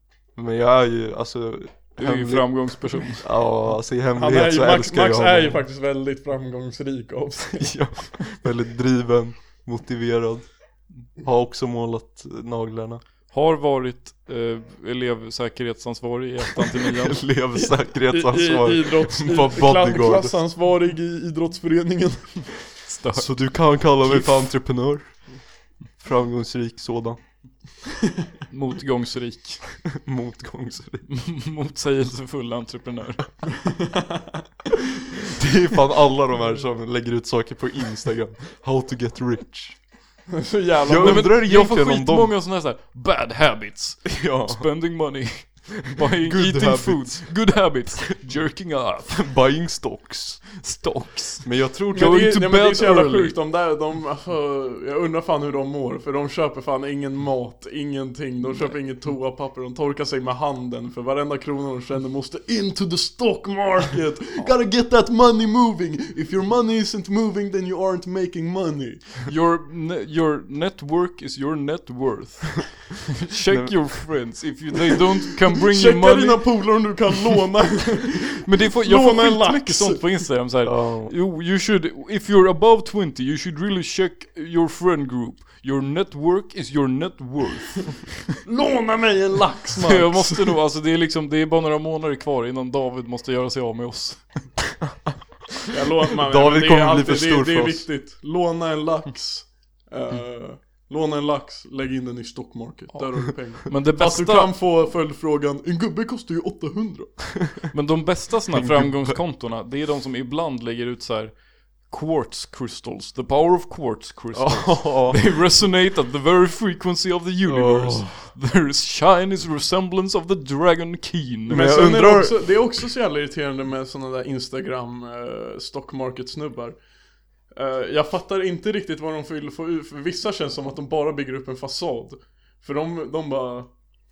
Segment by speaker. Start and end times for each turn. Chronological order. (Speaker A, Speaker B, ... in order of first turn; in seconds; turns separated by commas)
Speaker A: 0.3-5.6, Speaker B: 2.0-3.3, Speaker C: 4.2-7.9, Speaker A: 7.5-10.5, Speaker A: 11.2-13.0, Speaker B: 13.3-17.2, Speaker A: 16.8-20.4, Speaker C: 17.5-22.6, Speaker B: 22.8-24.3, Speaker A: 23.1-25.4, Speaker A: 26.0-27.2, Speaker B: 28.5-29.8, Speaker A: 29.9-31.1, Speaker B: 31.1-33.5, Speaker C: 33.6-34.4, Speaker A: 35.3-39.8, Speaker C: 40.3-41.4, Speaker A: 40.8-42.3, Speaker B: 41.0-49.2, Speaker A: 44.0-44.7, Speaker A: 46.2-47.4, Speaker A: 49.1-50.6, Speaker B: 50.6-53.4, Speaker A: 51.4-52.2, Speaker C: 51.9-69.2, Speaker B: 58.5-58.8, Speaker B: 69.3-76.5, Speaker A: 73.5-74.3, Speaker C: 75.6-80.2, Speaker B: 78.4-88.1, Speaker A: 80.6-81.1, Speaker C: 88.4-90.5, Speaker B: 89.8-94.4, Speaker C: 95.7-107.4, Speaker A: 96.2-97.8, Speaker B: 103.7-104.5, Speaker B: 107.7-121.7, Speaker A: 108.5-109.2, Speaker A: 114.3-115.2, Speaker A: 117.5-118.1, Speaker A: 121.5-122.5, Speaker C: 121.5-126.8, Speaker C: 127.5-133.7